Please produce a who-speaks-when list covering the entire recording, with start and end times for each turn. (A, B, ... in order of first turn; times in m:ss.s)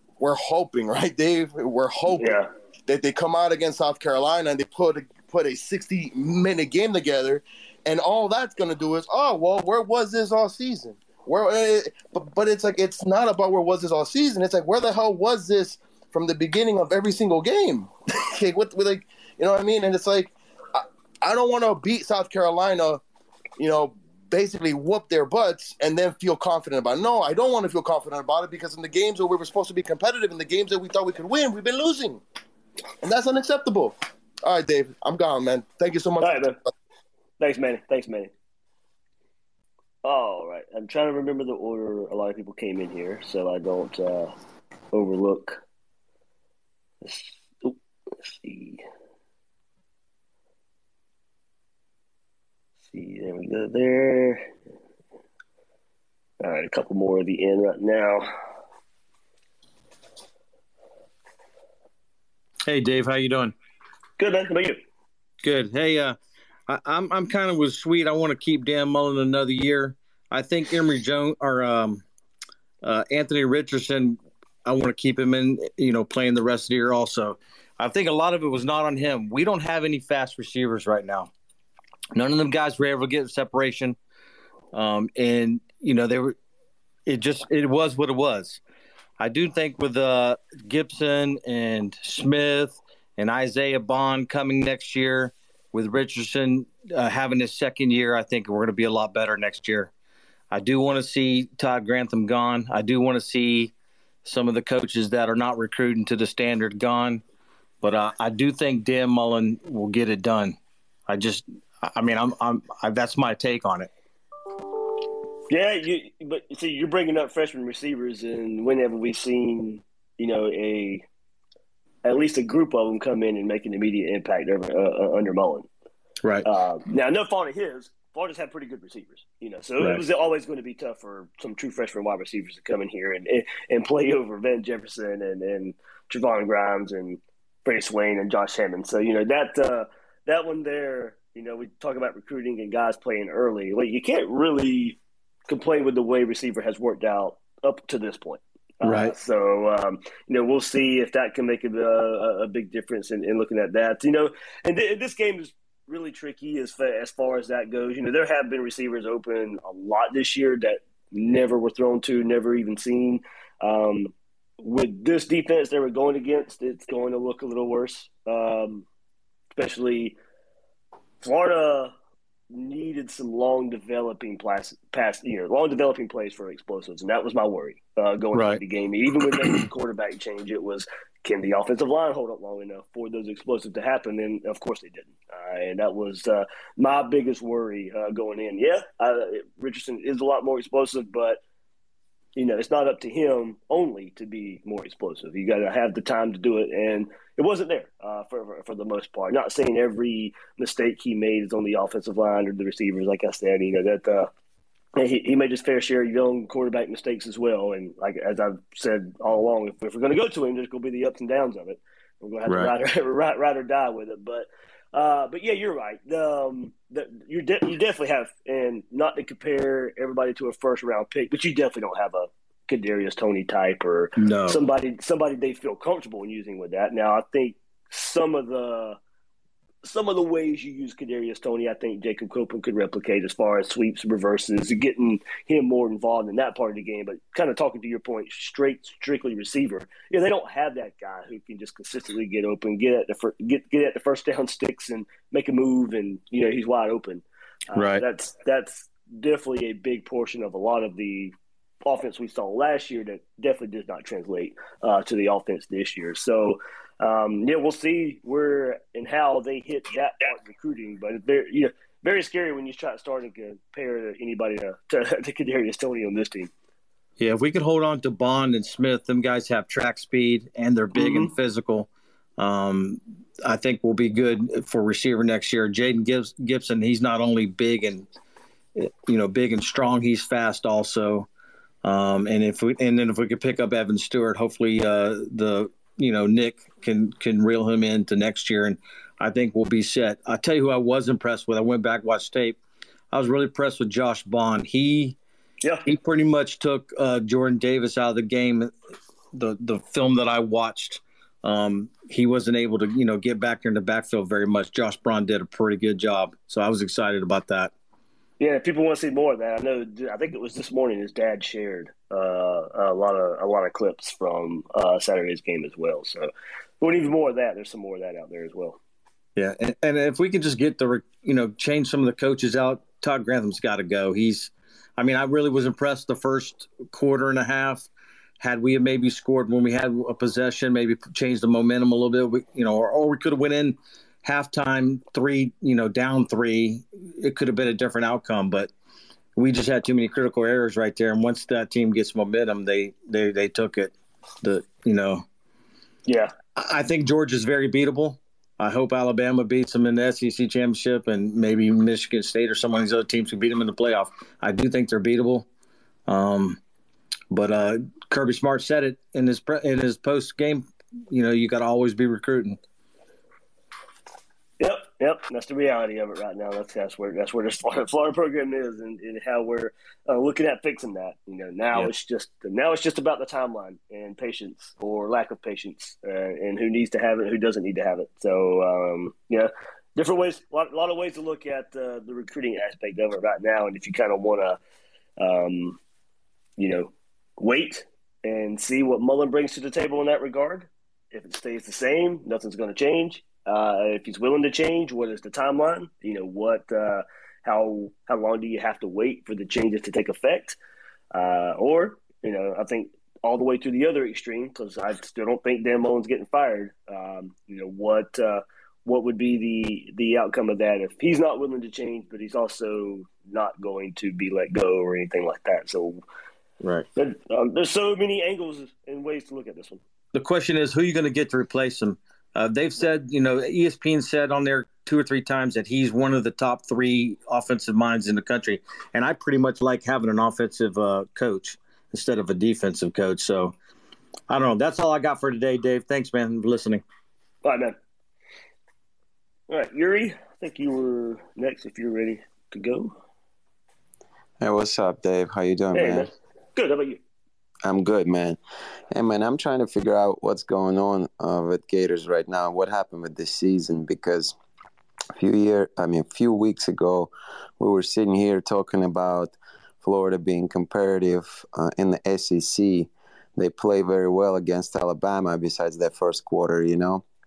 0:00.2-0:23.0 A
0:02.2-0:02.5 B
0:23.6-0:32.2 A
0:33.0-0:36.5 A
0:36.2-0:36.6 B
0:37.4-0:38.3 B
0:40.0-0:44.3 B
0:44.9-0:45.6 B
0:47.0-0:48.8 B
0:52.9-0:54.4 B
0:56.4-0:58.3 B
1:02.7-1:03.5 C
1:04.2-1:04.8 B
1:05.4-1:06.2 C
1:06.7-1:12.0 C
1:12.8-1:21.3 C
1:22.2-1:24.0 C
1:24.7-1:26.4 C
1:27.1-1:28.6 C
1:29.2-1:39.9 C
1:40.5-1:43.7 C
1:44.2-1:47.2 C
1:47.8-1:50.6 C
1:51.1-1:53.9 C
1:55.5-2:01.0 B
2:02.0-2:05.7 B
2:06.4-2:48.9 B
2:28.8-2:29.1 C
2:49.6-2:50.2 B
2:51.2-2:51.9 B
2:52.5-3:11.4 B
3:12.4-3:24.3 B
3:25.0-3:49.0 B
3:44.2-3:44.6 C
3:49.8-4:11.3 B
4:07.7-4:08.0 C
4:11.8-4:26.5 B
4:27.2-4:38.1 C
4:31.0-4:31.3 B
4:38.8-4:41.3 C
4:41.8-4:52.6 C
4:53.1-4:55.2 C
4:55.8-4:58.7 C
4:59.3-5:07.7 C
5:08.4-5:16.3 B
5:16.8-5:18.8 B
5:19.4-5:27.9 C
5:28.4-5:38.7 C
5:39.4-5:45.2 C
5:46.1-5:46.3 B
5:46.6-5:55.5 C
5:56.1-5:56.6 C
5:57.3-6:02.6 C
6:04.6-6:24.6 B
6:25.2-6:25.8 B
6:26.6-6:40.6 B
6:41.1-6:56.0 B
6:56.6-6:56.9 C
6:57.0-6:59.8 B
7:00.1-7:13.6 C
7:14.3-7:16.8 C
7:17.4-7:17.8 B
7:19.5-7:22.9 B
7:24.4-7:26.1 D
7:25.8-7:27.0 B
7:27.6-7:28.4 D
7:28.9-7:34.4 D
7:35.2-7:47.0 D